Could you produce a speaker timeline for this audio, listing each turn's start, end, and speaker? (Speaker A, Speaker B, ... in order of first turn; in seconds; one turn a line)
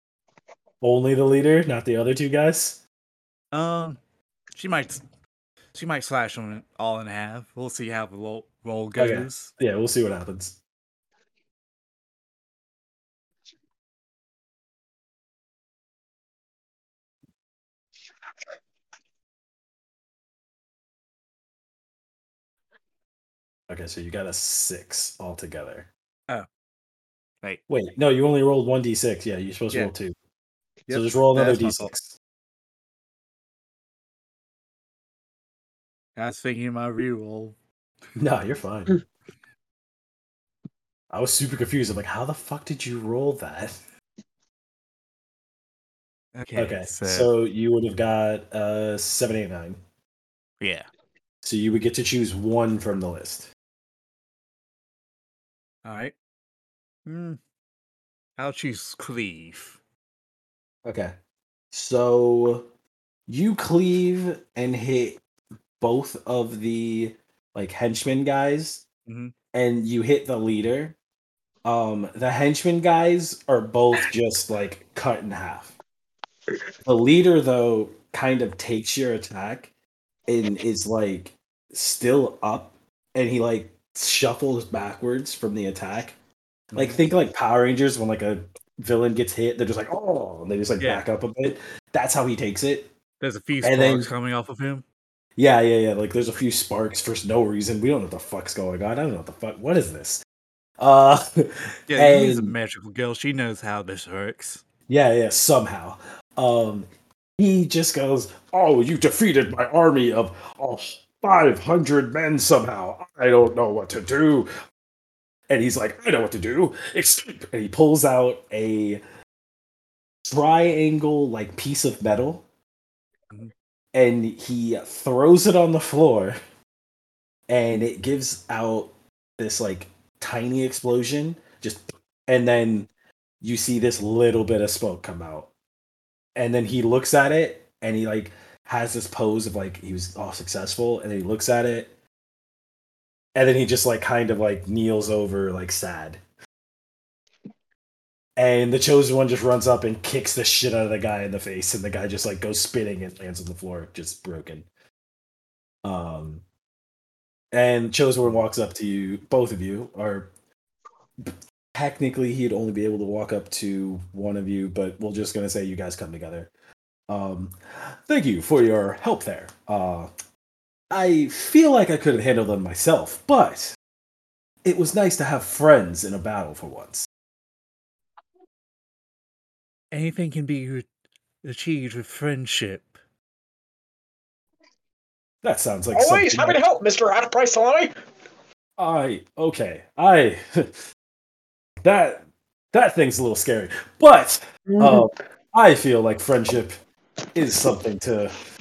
Speaker A: 0.8-2.8
Speaker B: 3.5-4.0
Speaker B: 4.5-5.0
Speaker B: 5.7-9.5
Speaker A: 9.0-10.6
Speaker A: 23.7-25.9
Speaker A: 27.7-30.1
Speaker B: 30.9-31.9
Speaker A: 30.9-32.1
Speaker B: 36.2-37.5
Speaker A: 38.2-38.9
Speaker A: 41.1-43.8
Speaker B: 46.3-47.3
Speaker A: 46.5-49.8
Speaker B: 50.6-50.9
Speaker A: 51.4-53.5
Speaker B: 55.8-56.1
Speaker B: 57.0-57.4
Speaker B: 58.4-59.8
Speaker A: 60.8-61.1
Speaker A: 61.7-62.7
Speaker A: 63.3-65.2
Speaker A: 65.8-68.8
Speaker B: 69.1-69.3
Speaker A: 69.5-71.0
Speaker A: 71.6-75.7
Speaker A: 76.8-79.7
Speaker A: 80.3-86.2
Speaker B: 86.7-87.0
Speaker A: 86.8-92.9
Speaker B: 93.2-94.8
Speaker A: 93.6-94.1
Speaker A: 95.4-100.2
Speaker A: 100.8-102.5
Speaker B: 101.9-104.6
Speaker A: 104.9-114.5
Speaker A: 115.5-119.0
Speaker A: 120.2-122.4
Speaker A: 123.9-126.3
Speaker A: 127.5-132.9
Speaker A: 133.4-135.5
Speaker A: 136.3-141.9
Speaker A: 143.3-146.2
Speaker A: 148.4-154.7
Speaker A: 155.8-156.4
Speaker A: 157.5-160.3
Speaker A: 161.2-166.5
Speaker A: 167.1-170.1
Speaker A: 170.9-173.8
Speaker A: 174.6-177.1
Speaker B: 179.9-180.9
Speaker B: 181.4-182.9
Speaker A: 185.4-186.6
Speaker C: 185.9-187.9
Speaker A: 188.8-190.7
Speaker A: 191.8-196.8
Speaker C: 194.7-195.1
Speaker A: 197.3-198.3